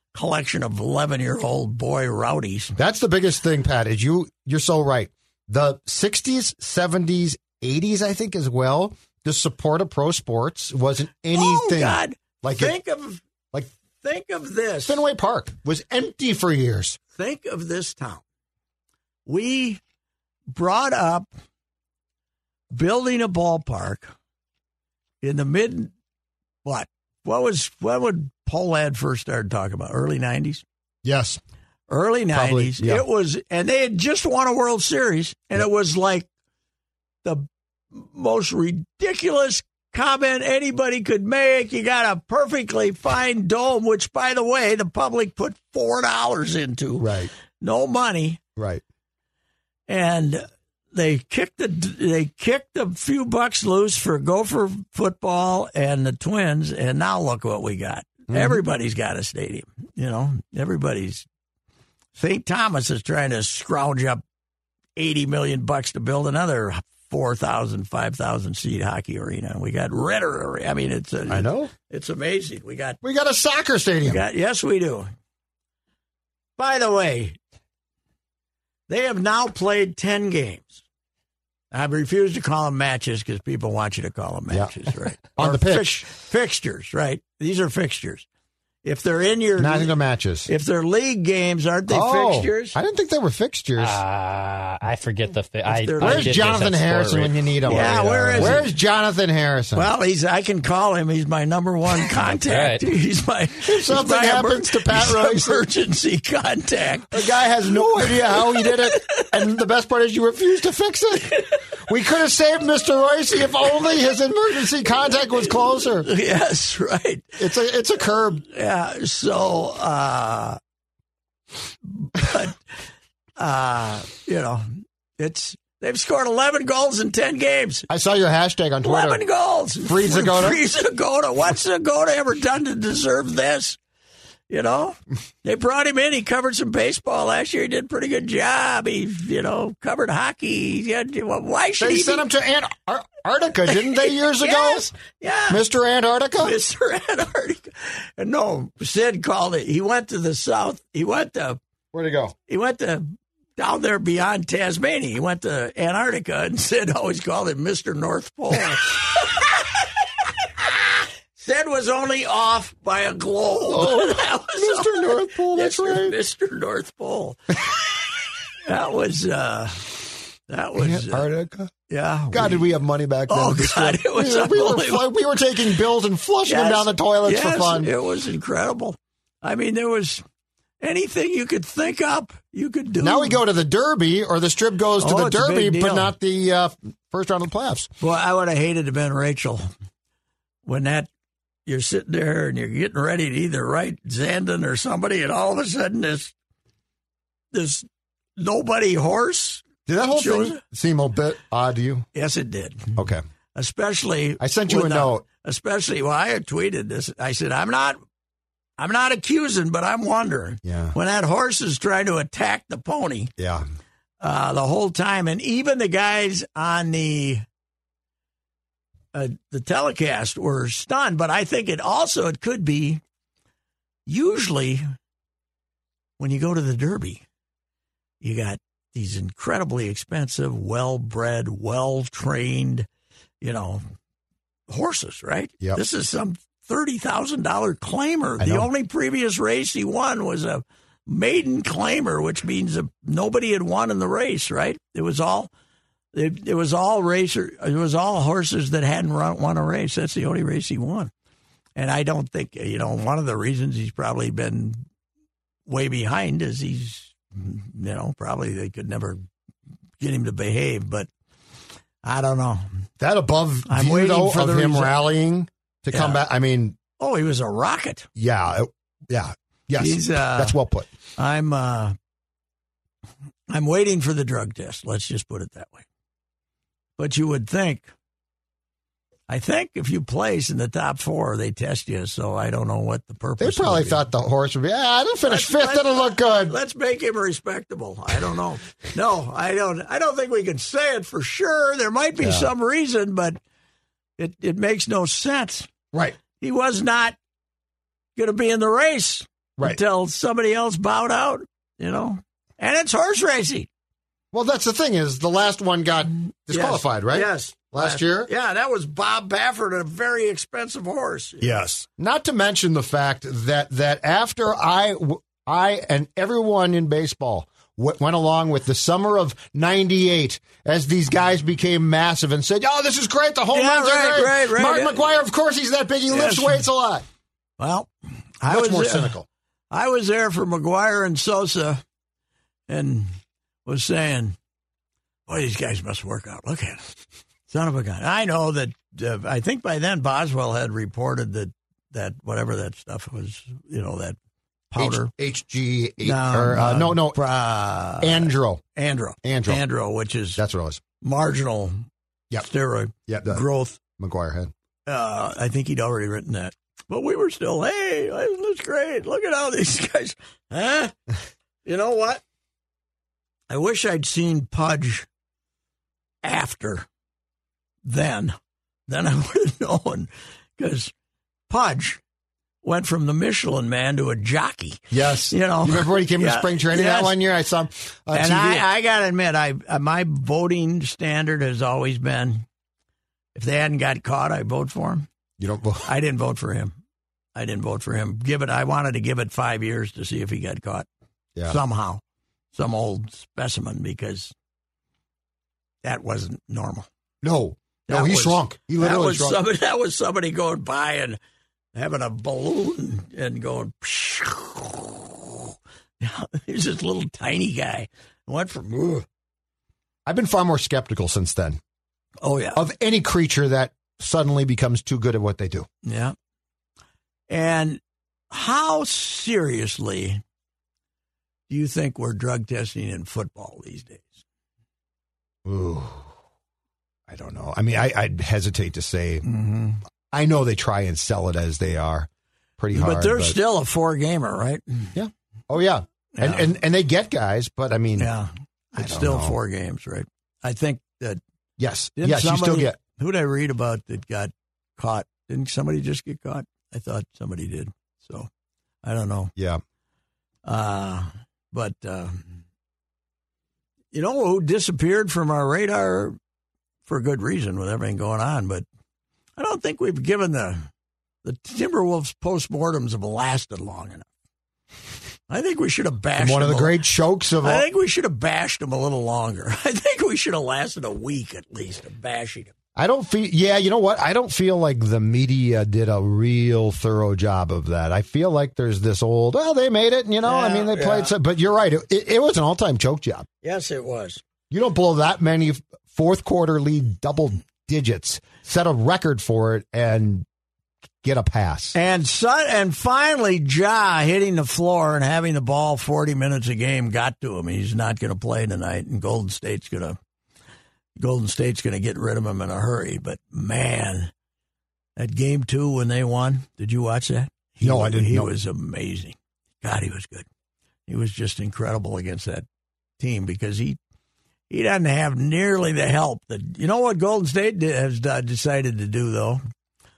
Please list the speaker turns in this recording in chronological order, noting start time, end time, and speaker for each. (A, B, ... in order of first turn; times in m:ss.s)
0:00.1-0:02.8 A
0:02.8-0:12.8 B
0:11.3-0:13.2 A
0:14.0-0:15.0 A
0:14.8-0:17.0 B
0:17.2-0:18.2 A
0:19.3-0:19.8 A
0:20.5-0:21.3 A
0:22.7-0:24.1 A
0:25.2-0:25.9 A
0:26.6-0:30.6 A
0:31.0-0:31.4 B
0:31.9-0:36.3 A
0:32.3-0:33.0 B
0:37.2-0:48.4 A
0:47.0-0:47.3 B
0:48.6-0:48.8 B
0:49.9-1:01.3 A
0:58.3-0:58.6 B
1:02.2-1:04.2 A
1:05.0-1:13.0 A
1:11.3-1:11.7 B
1:13.0-1:14.2 B
1:14.0-1:15.1 A
1:16.6-1:17.4 A
1:18.9-1:20.8 A
1:21.7-1:28.3 A
1:25.3-1:26.0 B
1:28.8-1:29.9 A
1:29.6-1:30.5 B
1:30.5-1:32.8 A
1:31.9-1:34.0 B
1:33.8-1:38.6 C
1:35.7-1:36.5 A
1:36.0-1:39.9 B
1:37.6-1:38.7 A
1:39.8-1:49.4 A
1:42.4-1:42.9 C
1:43.6-1:45.6 B
1:47.1-1:56.1 B
1:55.1-1:57.4 A
1:57.4-1:58.4 B
1:58.4-2:00.6 A
2:01.9-2:02.6 A
2:03.4-2:07.9 A
2:07.9-2:09.2 B
2:08.8-2:13.8 A
2:09.8-2:10.6 B
2:14.5-2:22.3 A
2:21.8-2:24.9 B
2:23.7-2:25.6 A
2:25.5-2:26.6 B
2:26.4-2:31.6 A
2:31.9-2:32.4 B
2:32.5-2:39.8 A
2:41.4-2:47.7 A
2:43.7-2:46.2 B
2:48.6-2:51.3 A
2:50.8-2:51.7 B
2:51.9-2:52.7 A
2:52.3-2:57.9 B
2:53.3-2:55.5 A
2:56.5-3:00.2 A
3:00.8-3:03.4 A
3:03.0-3:07.9 B
3:05.0-3:06.1 A
3:08.0-3:09.7 A
3:10.6-3:11.1 A
3:11.7-3:16.3 A
3:17.5-3:17.9 A
3:18.4-3:20.6 A
3:19.9-3:22.1 B
3:22.1-3:23.0 A
3:23.0-3:23.2 B
3:23.6-3:28.0 A
3:24.4-3:25.2 B
3:28.8-3:33.3 A
3:30.6-3:31.0 B
3:33.4-3:33.6 B
3:34.2-3:37.4 A
3:39.1-3:43.0 A
3:44.1-3:44.8 A
3:46.2-3:47.2 A
3:48.2-3:52.9 A
3:53.4-3:53.8 A
3:54.7-4:05.5 A
3:58.4-3:58.7 B
4:06.1-4:11.1 A
4:11.8-4:14.8 A
4:15.7-4:19.2 A
4:20.0-4:21.1 A
4:22.0-4:22.7 A
4:23.0-4:26.8 B
4:23.7-4:25.0 A
4:25.9-4:26.2 A
4:27.0-4:28.1 A
4:28.2-4:30.9 B
4:29.8-4:30.6 A
4:31.2-4:32.0 A
4:33.5-4:35.8 A
4:37.0-4:37.9 A
4:39.3-4:44.0 A
4:43.4-4:46.6 B
4:45.2-4:53.4 A
4:52.2-4:52.5 B
4:54.2-4:55.7 A
4:55.9-4:56.2 B
4:56.4-4:57.2 A
4:58.2-5:03.7 A
5:04.3-5:08.3 B
5:06.5-5:11.6 A
5:11.4-5:27.0 B
5:23.5-5:25.1 A
5:26.1-5:26.6 A
5:27.6-5:27.9 A
5:28.4-5:29.1 A
5:28.5-5:29.3 B
5:29.7-5:31.8 A
5:32.7-5:33.1 A
5:33.7-5:34.4 A
5:35.3-5:36.9 A
5:37.5-5:44.2 A
5:44.7-5:45.1 A
5:44.8-5:47.2 B
5:46.0-5:50.4 A
5:48.0-5:48.6 B
5:49.2-5:49.6 B
5:50.4-5:50.8 B
5:51.0-5:51.8 A
5:52.4-5:53.8 A
5:53.1-5:53.4 B
5:54.0-5:54.5 B
5:54.9-6:00.9 A
6:01.6-6:02.2 A
6:03.5-6:05.1 A
6:06.2-6:06.9 A
6:07.8-6:08.4 A
6:08.9-6:10.9 A
6:11.5-6:12.0 A
6:12.6-6:17.1 A
6:14.9-6:18.7 B
6:18.1-6:22.4 A
6:23.4-6:25.1 A
6:25.4-6:25.9 B
6:25.8-6:26.7 A
6:27.4-6:30.9 A
6:31.5-6:32.0 A
6:32.5-6:34.3 A
6:35.8-6:36.9 A
6:37.2-6:39.4 B
6:37.9-6:41.2 A
6:41.8-6:49.0 A
6:50.1-6:51.6 B
6:52.2-6:52.6 A
6:52.6-6:55.7 B
6:55.8-6:56.2 A
6:57.3-6:57.8 A
6:58.3-7:00.2 A
7:01.5-7:04.2 A
7:05.5-7:06.1 B
7:07.1-7:09.2 B
7:09.2-7:09.8 A
7:10.1-7:12.1 B
7:12.6-7:13.4 B
7:12.7-7:14.9 A
7:15.0-7:18.1 B
7:16.2-7:16.5 A
7:18.0-7:21.2 A
7:18.8-7:19.4 B
7:21.6-7:22.8 B
7:22.0-7:28.3 A
7:28.8-7:29.3 A
7:29.4-7:29.6 B
7:30.4-7:32.4 A
7:33.9-7:36.2 A
7:36.9-7:38.7 A
7:39.4-7:40.7 A
7:41.2-7:44.1 A
7:45.3-7:46.8 A
7:46.2-7:47.7 B
7:47.4-7:52.5 A
7:52.8-8:03.3 B
8:00.2-8:01.1 A
8:03.4-8:04.2 A
8:04.5-8:10.3 B
8:11.0-8:11.8 B
8:11.7-8:20.0 A
8:21.0-8:24.1 A
8:25.0-8:30.3 A
8:27.6-8:28.3 B
8:30.9-8:32.4 A
8:33.0-8:33.8 A
8:34.5-8:39.4 A